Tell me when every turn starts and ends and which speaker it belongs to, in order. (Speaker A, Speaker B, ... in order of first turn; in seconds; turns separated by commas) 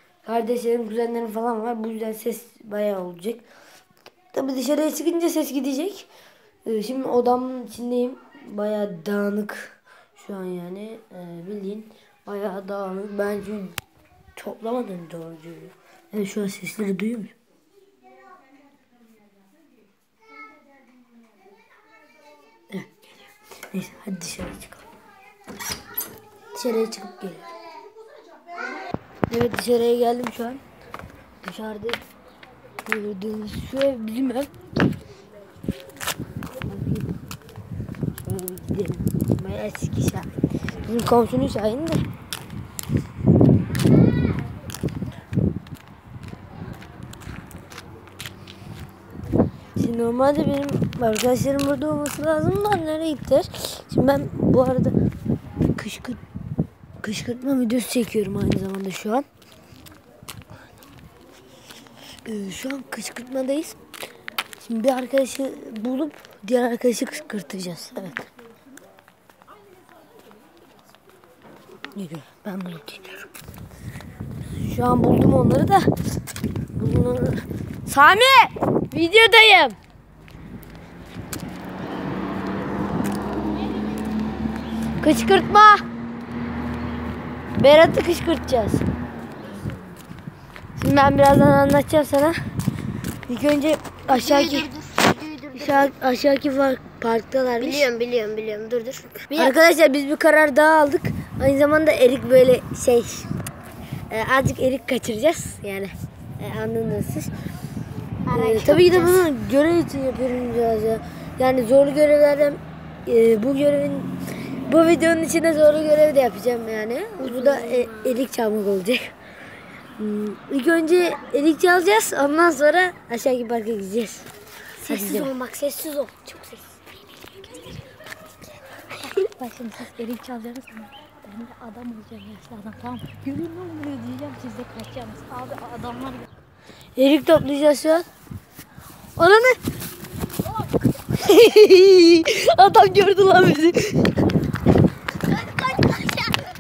Speaker A: 0.2-3.5, Speaker A: 4.3-6.1, Speaker A: 6.7-13.8, Speaker A: 14.4-17.4, Speaker A: 22.7-24.9, Speaker A: 26.5-27.5, Speaker A: 29.3-30.6, Speaker A: 31.4-32.0, Speaker A: 32.9-34.5, Speaker A: 36.7-37.1, Speaker A: 38.2-42.0, Speaker A: 49.8-55.0, Speaker A: 55.7-56.2, Speaker A: 57.0-59.3, Speaker A: 62.3-63.8, Speaker A: 64.6-68.3, Speaker A: 71.9-73.3, Speaker A: 74.6-75.9, Speaker A: 76.8-79.8, Speaker A: 85.0-85.8, Speaker A: 87.6-88.8, Speaker A: 90.8-92.4, Speaker A: 93.3-94.7, Speaker B: 94.1-95.9, Speaker A: 95.6-97.9, Speaker B: 97.6-99.5, Speaker A: 99.3-103.3, Speaker A: 104.1-107.3, Speaker B: 108.3-109.3, Speaker A: 108.3-114.1, Speaker A: 114.7-119.1, Speaker B: 117.2-118.2, Speaker A: 120.0-124.3, Speaker B: 124.8-126.8, Speaker A: 124.9-125.3, Speaker C: 130.3-136.3, Speaker A: 137.0-138.1, Speaker A: 139.2-139.6, Speaker A: 141.1-144.2